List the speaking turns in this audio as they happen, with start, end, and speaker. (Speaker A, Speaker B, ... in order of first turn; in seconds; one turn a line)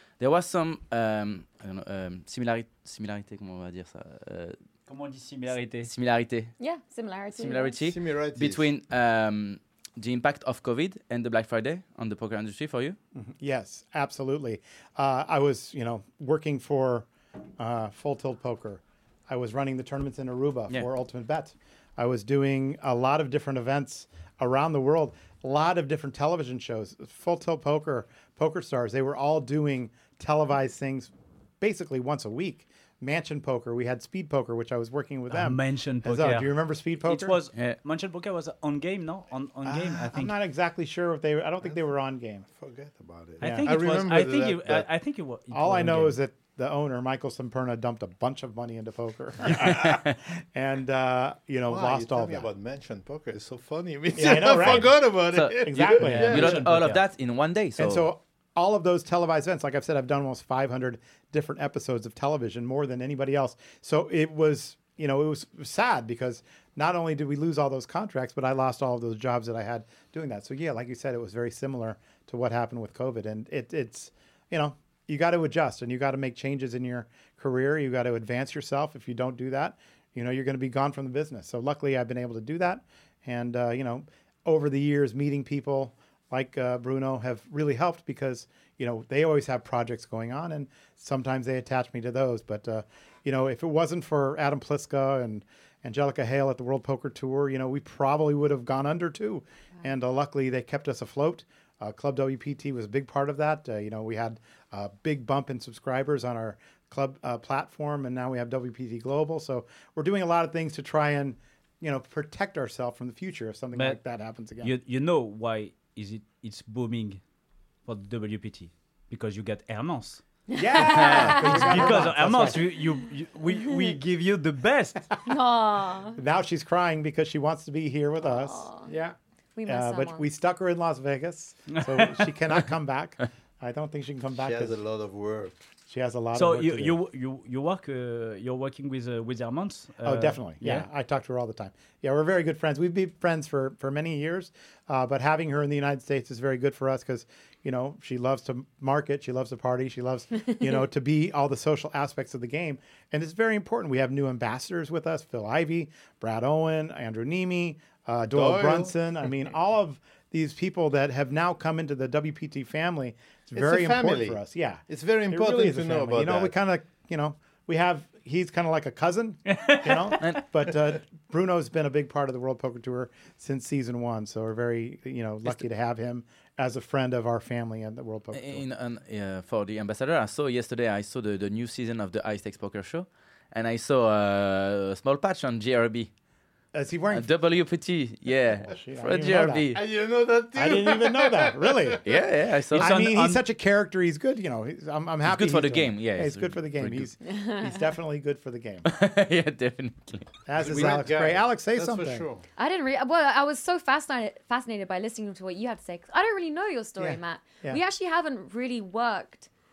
Speaker A: 0.2-4.6
Speaker B: 4.9-5.9
Speaker A: 5.8-6.5
Speaker C: 6.6-7.8
Speaker A: 7.4-13.0
Speaker D: 7.8-8.7
Speaker E: 13.2-17.1
Speaker E: 17.6-37.4
Speaker B: 35.3-40.3
Speaker E: 39.6-42.5
Speaker D: 42.5-44.9
Speaker B: 43.4-46.2
Speaker E: 43.4-43.8
Speaker E: 45.5-52.5
Speaker A: 49.6-50.2
Speaker D: 51.7-56.6
Speaker E: 54.2-56.6
Speaker A: 55.3-58.1
Speaker B: 56.0-57.0
Speaker E: 57.8-114.7
Speaker B: 114.6-117.2
Speaker B: 117.9-120.2
Speaker E: 120.5-122.7
Speaker C: 121.0-122.0
Speaker B: 121.0-125.0
Speaker C: 125.2-126.2
Speaker E: 126.2-129.1
Speaker C: 128.2-128.9
Speaker C: 129.6-130.2
Speaker E: 129.7-134.8
Speaker B: 131.7-132.3
Speaker D: 134.4-135.6
Speaker E: 135.9-137.0
Speaker B: 136.3-140.9
Speaker E: 140.0-178.6
Speaker C: 150.5-150.8
Speaker D: 158.3-158.9
Speaker D: 163.6-166.5
Speaker B: 169.5-170.2
Speaker A: 178.3-186.1
Speaker E: 186.7-187.3
Speaker A: 187.1-189.8
Speaker E: 188.7-189.7
Speaker D: 189.7-192.0
Speaker E: 190.5-192.0
Speaker A: 192.1-192.9
Speaker E: 192.7-198.9
Speaker B: 192.7-193.4
Speaker A: 195.2-197.1
Speaker C: 197.2-197.9
Speaker A: 198.9-200.3
Speaker E: 200.5-202.3
Speaker D: 200.6-202.4
Speaker C: 202.6-209.5
Speaker E: 207.0-207.8